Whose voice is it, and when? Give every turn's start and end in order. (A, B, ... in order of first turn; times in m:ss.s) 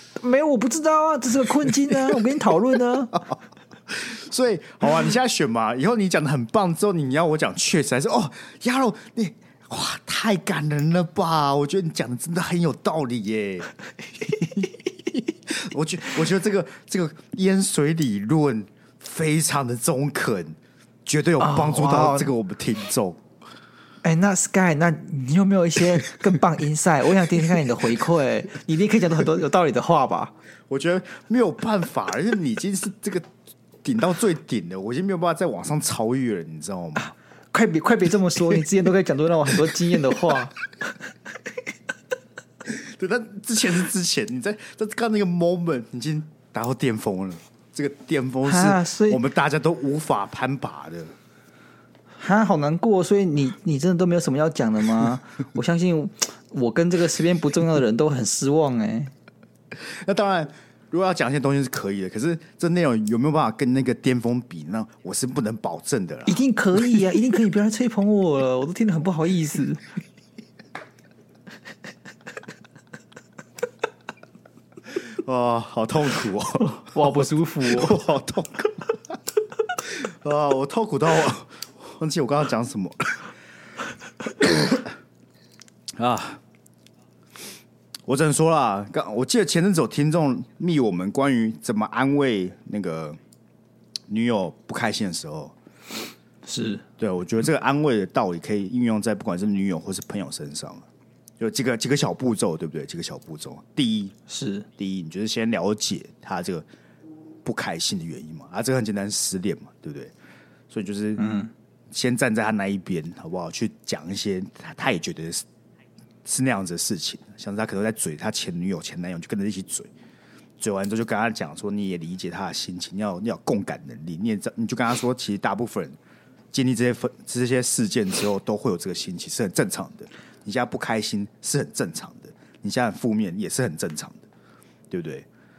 0:00.2-0:03.2 A
0:03.9-0:13.7 B
0:14.2-0:23.2 B
0:21.4-0:22.3 A
0:24.0-0:30.3 A
0:30.7-0:33.3 B
0:33.8-0:37.1 B
0:37.5-0:40.5 A
0:42.6-0:51.1 B
0:48.4-0:49.2 A
0:52.2-0:59.1 A
0:59.7-1:06.4 B
1:06.3-1:09.8 A
1:14.9-1:18.9 B
1:16.6-1:18.0 A
1:19.8-1:23.3 B
1:24.3-1:24.8 B
1:26.0-1:26.4 B
1:28.0-1:33.2 B
1:34.1-1:35.5 B
1:36.4-1:36.8 A
1:37.0-1:40.8 B
1:41.4-1:44.1 B
1:44.3-1:44.7 A
1:44.8-1:46.6 B
1:47.4-1:50.1 B
1:50.7-1:51.3 B
1:51.2-1:51.5 A
1:51.9-1:55.4 B
1:56.2-1:59.9 B
2:00.6-2:06.0 B
2:06.5-2:14.2 B
2:14.9-2:15.3 B